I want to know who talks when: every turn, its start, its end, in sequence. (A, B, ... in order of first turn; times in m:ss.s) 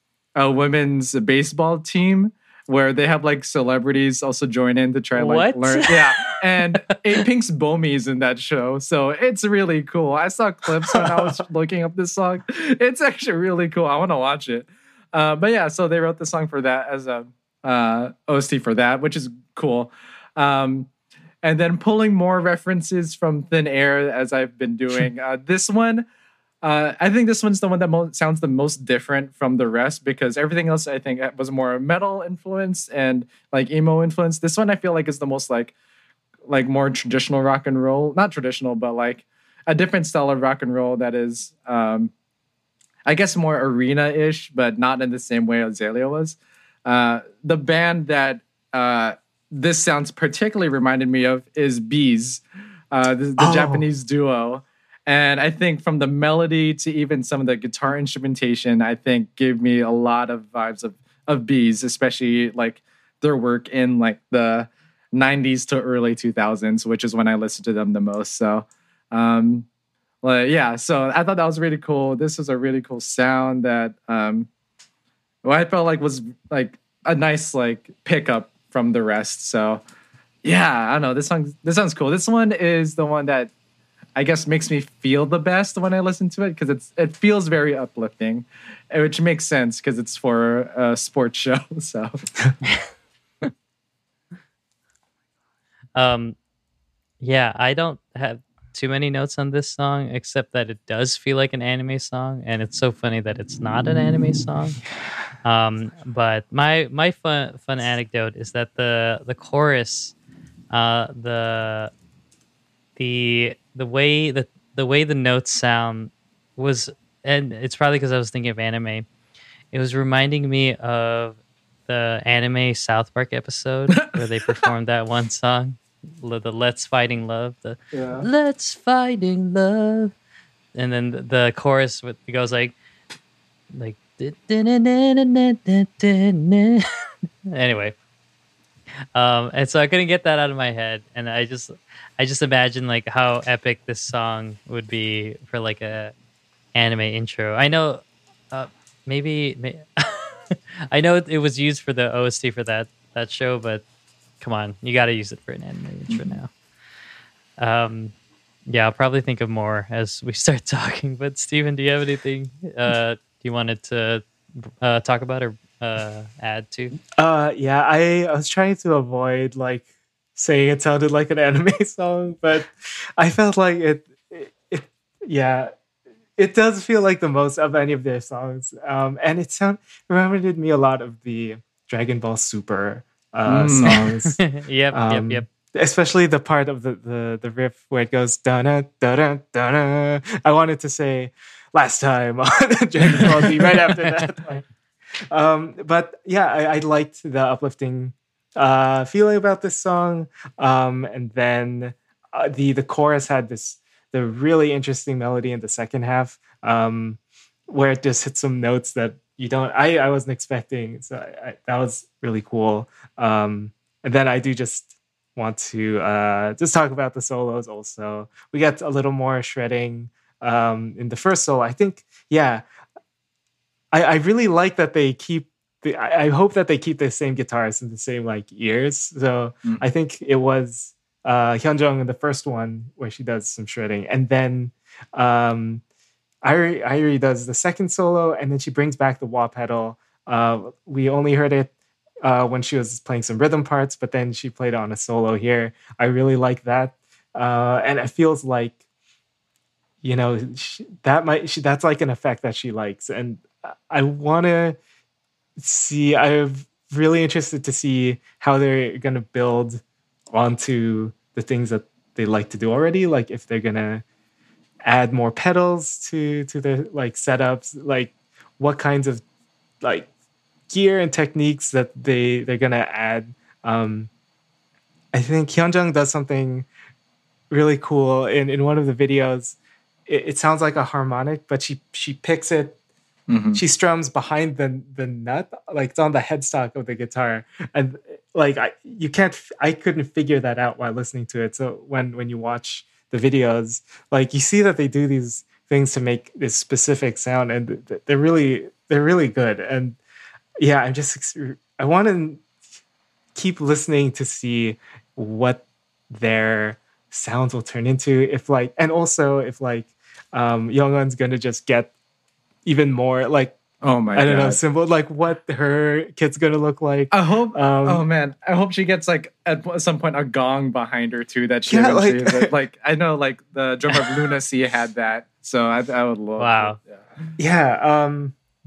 0:00.4-0:20.9 A
0:05.1-0:06.4 B
0:11.0-0:11.3 C
0:21.4-0:26.0 A
0:26.6-0:35.7 A
0:36.5-0:42.1 A
0:43.0-1:09.6 A
0:53.4-0:53.8 C
1:10.2-1:14.5 A
1:15.4-1:19.8 A
1:20.4-1:23.5 A
1:24.2-1:32.2 A
1:35.9-1:36.4 B
1:37.2-1:44.8 B
1:45.4-1:50.1 B
1:50.7-1:51.9 B
1:53.0-1:59.0 B
1:59.7-2:10.1 B
2:07.9-2:08.3 A
2:10.7-2:12.7 B
2:13.7-2:16.8 B
2:17.5-2:18.0 B
2:19.1-2:26.1 B
2:26.7-2:33.8 B
2:34.4-2:36.5 B
2:36.1-2:36.4 A
2:37.6-2:38.1 B
2:38.7-2:47.0 B
2:47.2-2:55.7 C
2:56.4-3:14.6 C
3:03.4-3:04.1 A
3:03.8-3:05.4 B
3:13.4-3:14.2 B
3:15.3-3:42.6 C
3:43.9-3:55.8 C
3:56.4-4:01.7 C
4:02.2-4:08.8 C
4:10.0-4:14.8 C
4:15.6-4:24.0 C
4:24.8-4:29.2 C
4:29.8-4:30.1 C
4:30.7-4:34.1 C
4:35.1-4:36.7 C
4:37.5-4:42.8 C
4:43.3-4:43.6 A
4:43.5-5:00.0 C
5:00.6-5:02.4 C
5:03.3-5:11.9 C
5:12.6-5:13.6 C
5:13.8-5:14.6 A
5:14.1-5:18.0 C
5:17.1-5:27.0 A
5:21.7-5:22.5 C
5:26.4-5:26.8 B
5:27.4-5:28.3 C